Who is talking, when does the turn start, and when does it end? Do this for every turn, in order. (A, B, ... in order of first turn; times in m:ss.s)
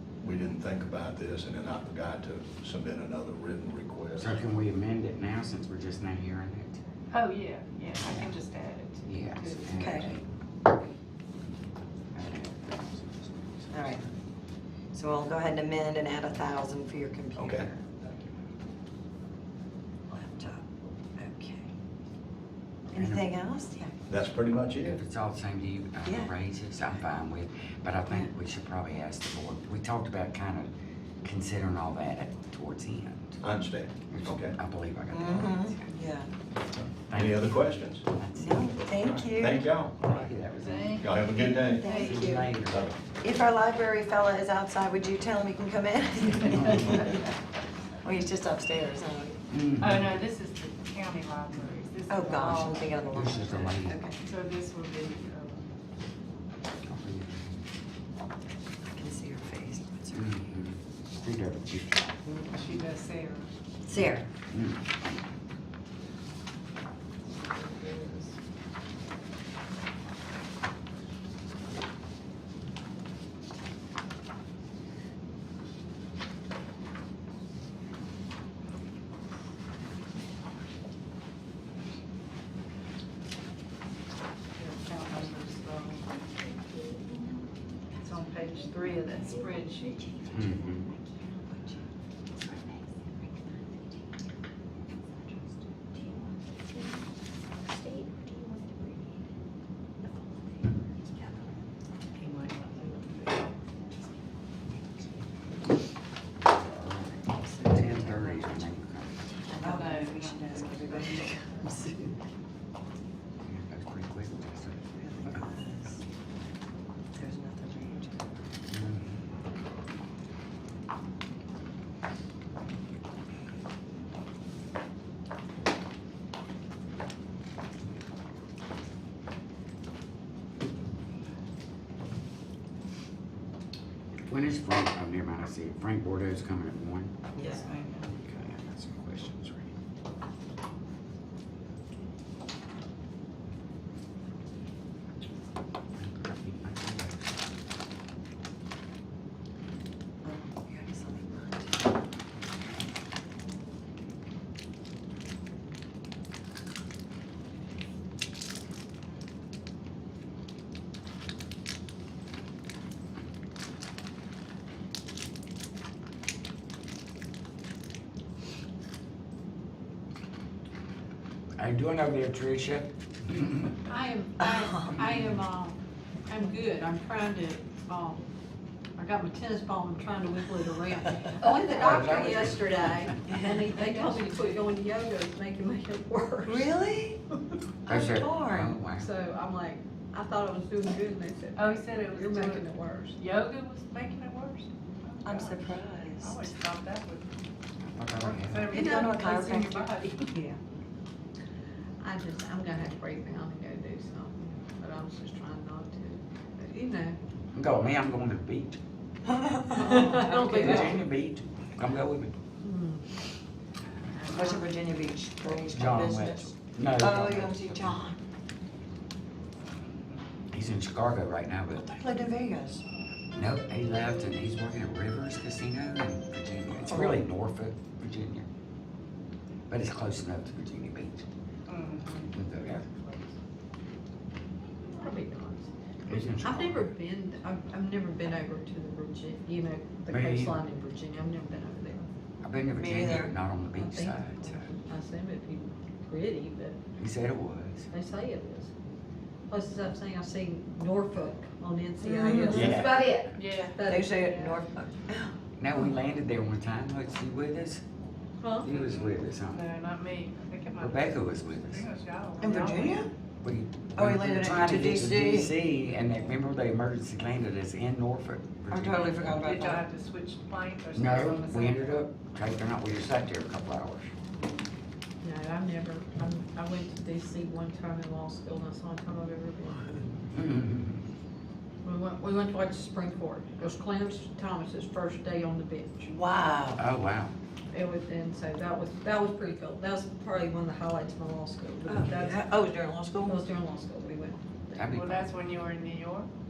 0:00.2-0:04.3 A
0:04.2-0:06.8 B
0:07.1-0:09.9 C
0:08.0-0:08.3 B
0:09.0-0:10.2 B
0:09.7-0:10.1 D
0:12.1-0:14.1 B
0:13.7-0:14.0 D
0:14.9-0:17.8 D
0:17.4-0:17.7 A
0:20.1-0:21.7 D
0:22.9-0:23.3 B
0:22.9-0:24.0 D
0:24.1-0:25.0 A
0:24.8-0:30.7 B
0:31.2-0:33.4 B
0:33.4-0:34.6 A
0:34.1-0:35.9 B
0:35.1-0:36.3 D
0:36.8-0:38.0 A
0:37.1-0:39.1 B
0:38.4-0:39.7 D
0:39.0-0:40.0 A
0:40.0-0:41.2 B
0:40.6-0:42.2 C
0:41.0-0:41.9 A
0:41.6-0:42.6 D
0:41.8-0:42.8 B
0:42.6-0:43.0 A
0:43.1-0:47.2 D
0:48.0-0:49.4 D
0:49.5-0:50.2 B
0:49.8-0:55.7 C
0:52.1-0:54.2 D
0:53.1-0:54.0 B
0:56.8-0:57.6 B
0:58.9-1:00.2 D
1:00.1-1:02.0 B
1:02.2-1:02.5 D
1:02.5-1:03.5 C
1:03.8-1:04.3 D
1:04.5-1:04.8 B
1:24.6-1:26.0 C
1:28.0-1:30.0 C
1:30.3-1:30.9 B
1:42.2-1:43.5 C
1:46.5-1:49.5 B
1:47.2-1:48.6 D
1:49.5-1:52.1 D
1:49.6-1:51.3 C
1:53.4-1:54.8 B
1:55.0-1:56.0 D
1:57.2-1:58.2 D
1:58.7-1:59.2 B
2:14.3-2:17.1 B
2:17.4-2:17.7 D
2:17.4-2:18.2 C
2:18.2-2:19.7 B
2:26.0-2:27.2 B
2:30.2-2:31.7 D
2:51.6-2:53.6 B
2:53.8-2:58.2 E
2:55.0-2:55.2 B
2:59.0-3:06.7 E
3:01.6-3:03.1 B
3:03.8-3:04.5 C
3:06.4-3:07.2 D
3:07.9-3:08.8 D
3:07.9-3:09.1 B
3:08.9-3:13.2 E
3:11.6-3:12.6 C
3:13.2-3:17.2 C
3:15.2-3:16.6 D
3:17.8-3:18.8 B
3:18.2-3:20.2 C
3:18.7-3:20.3 D
3:22.0-3:27.2 E
3:27.5-3:28.8 B
3:29.7-3:31.0 E
3:29.9-3:32.3 B
3:32.6-3:33.0 E
3:34.2-3:38.2 D
3:35.7-3:38.0 B
3:40.5-3:42.0 B
3:41.8-3:42.8 D
3:43.3-3:48.4 B
3:46.8-3:47.2 D
3:49.7-3:51.2 B
3:51.7-3:52.3 C
3:52.2-3:52.9 B
3:54.8-3:55.7 E
3:56.0-3:56.9 B
3:56.4-4:02.1 E
4:00.1-4:00.6 B
4:02.4-4:04.6 B
4:02.7-4:03.3 D
4:03.7-4:06.8 E
4:07.0-4:07.9 B
4:07.9-4:08.7 E
4:09.5-4:14.2 E
4:12.0-4:12.7 D
4:12.4-4:13.3 B
4:13.4-4:14.6 C
4:13.8-4:15.3 D
4:15.6-4:17.8 B
4:18.4-4:18.7 E
4:18.6-4:19.6 B
4:18.7-4:23.0 C
4:20.8-4:21.8 B
4:22.4-4:23.1 D
4:23.4-4:29.4 B
4:24.0-4:25.5 D
4:28.7-4:29.8 D
4:29.2-4:32.0 C
4:30.9-4:34.1 B
4:35.2-4:40.0 E
4:40.4-4:40.9 B
4:41.8-4:46.0 E
4:46.0-4:46.8 D
4:46.8-4:47.3 B
4:47.7-4:52.4 E
4:51.8-4:53.4 D
4:53.2-4:54.8 E
4:54.7-4:55.2 B
4:54.9-4:56.3 C